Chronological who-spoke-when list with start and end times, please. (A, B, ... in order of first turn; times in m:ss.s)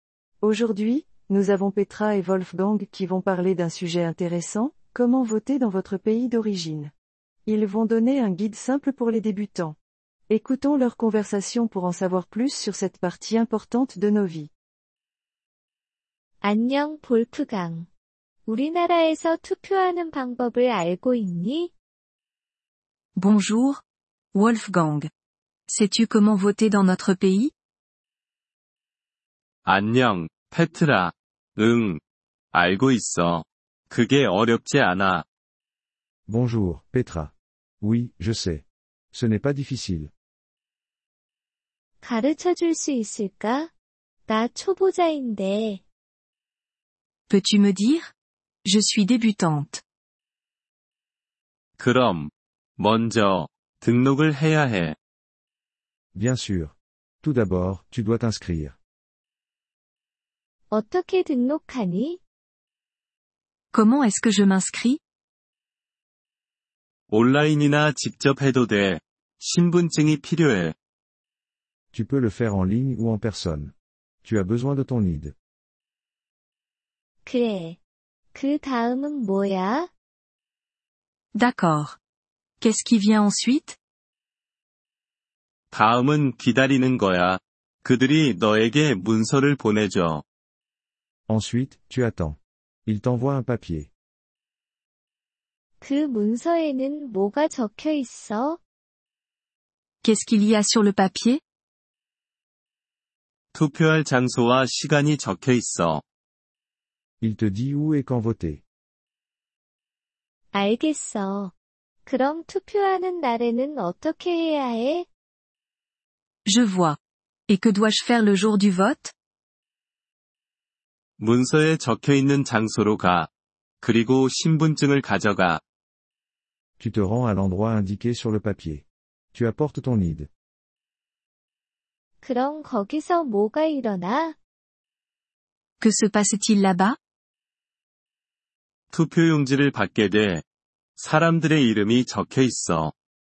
0:00.4-0:06.9 A
0:07.4-0:09.8 A
0:10.3-0:14.5 A
0:16.4-0:17.9 B
0:18.4-0:21.7 B
0:23.1-0:23.8 C
0:24.3-0:25.1 C
0:25.7-0:27.5 C
0:29.6-0:32.0 D
0:32.5-0:35.2 D
0:36.3-0:40.1 E
0:42.0-0:43.7 B
0:44.3-0:45.8 B
0:47.3-0:48.1 C
0:48.6-0:49.8 C
0:51.8-0:55.0 D
0:56.1-0:58.8 E
1:00.7-1:02.2 B
1:03.7-1:05.0 C
1:07.1-1:10.7 D
1:11.9-1:15.3 E
1:17.2-1:17.8 B
1:18.3-1:19.9 B
1:21.3-1:22.0 C
1:22.6-1:23.8 C
1:25.7-1:30.2 D
1:31.3-1:33.9 E
1:35.8-1:38.6 B
1:40.0-1:41.4 C
1:43.5-1:46.0 D
1:47.2-1:48.6 E
1:50.5-1:51.5 B
1:52.0-1:55.1 B
1:56.4-1:59.1 C
2:01.2-2:03.3 D
2:03.8-2:05.6 D
2:06.8-2:10.3 E
2:12.2-2:14.4 B
2:15.8-2:17.0 C
2:18.9-2:20.4 D
2:21.0-2:22.9 D